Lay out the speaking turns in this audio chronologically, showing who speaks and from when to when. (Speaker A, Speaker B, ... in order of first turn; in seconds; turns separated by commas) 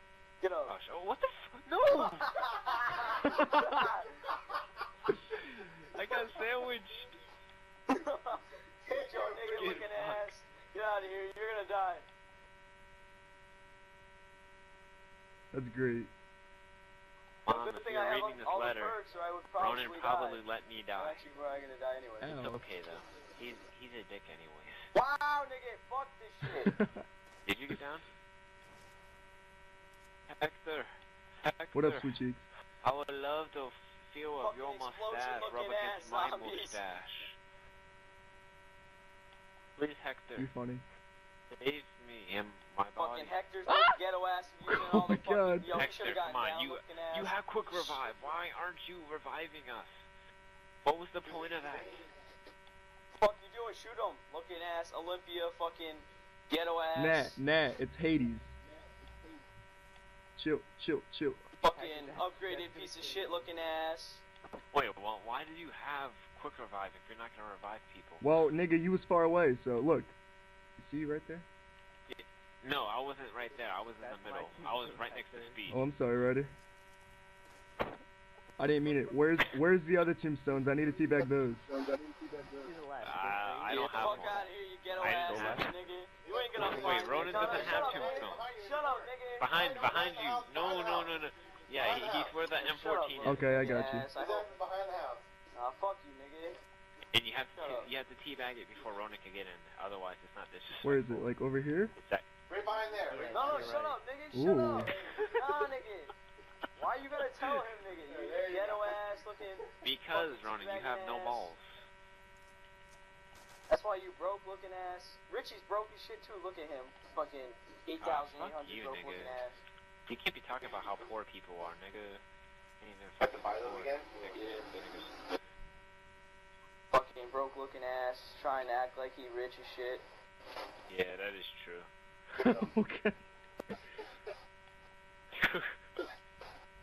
Speaker A: 0.4-0.7, Speaker B: 0.7-2.4, Speaker A: 2.0-4.2, Speaker C: 3.2-3.8, Speaker B: 5.3-7.1, Speaker A: 7.9-12.1, Speaker D: 8.9-9.9, Speaker B: 9.6-10.2, Speaker C: 15.5-16.1, Speaker B: 17.4-19.0, Speaker A: 17.5-20.4, Speaker B: 19.6-21.2, Speaker A: 21.0-22.3, Speaker C: 22.2-22.6, Speaker B: 22.2-24.9, Speaker A: 24.9-26.7, Speaker C: 26.6-27.0, Speaker B: 27.4-28.1, Speaker B: 30.3-32.1, Speaker C: 31.7-32.4, Speaker B: 32.8-37.4, Speaker A: 34.4-36.8, Speaker B: 39.8-40.5, Speaker C: 40.4-40.8, Speaker B: 41.6-43.3, Speaker A: 43.0-48.0, Speaker C: 43.7-44.0, Speaker C: 44.6-45.8, Speaker B: 45.7-50.0, Speaker B: 50.8-52.0, Speaker D: 51.2-52.0, Speaker A: 53.2-57.4, Speaker C: 57.0-58.5, Speaker C: 60.4-61.4, Speaker A: 61.6-64.2, Speaker E: 61.6-63.5, Speaker B: 64.7-68.3, Speaker C: 68.2-70.1, Speaker C: 70.8-71.5, Speaker B: 72.1-75.8, Speaker E: 74.0-75.6, Speaker C: 75.7-76.5, Speaker C: 78.6-81.6, Speaker E: 82.5-85.8, Speaker B: 83.0-85.7, Speaker A: 83.7-89.7, Speaker D: 86.2-92.4, Speaker B: 86.6-88.5, Speaker E: 86.6-87.8, Speaker B: 89.4-93.5, Speaker A: 92.5-94.5, Speaker C: 93.2-94.1, Speaker D: 94.1-95.2, Speaker A: 95.5-96.6, Speaker B: 97.1-101.3, Speaker A: 97.5-97.9, Speaker C: 100.8-101.9, Speaker B: 102.0-102.3, Speaker D: 102.5-103.7, Speaker E: 103.0-104.0, Speaker A: 103.3-106.1, Speaker C: 104.3-105.0, Speaker D: 104.9-105.2, Speaker A: 106.8-111.5, Speaker D: 108.1-109.0, Speaker B: 109.8-111.7, Speaker A: 113.7-119.6, Speaker B: 118.0-119.4, Speaker B: 120.1-122.2, Speaker B: 122.8-125.2, Speaker D: 123.2-124.7, Speaker A: 124.3-124.7, Speaker A: 126.9-130.0, Speaker B: 130.9-131.9, Speaker D: 132.4-132.7, Speaker C: 132.4-133.2, Speaker B: 135.3-135.8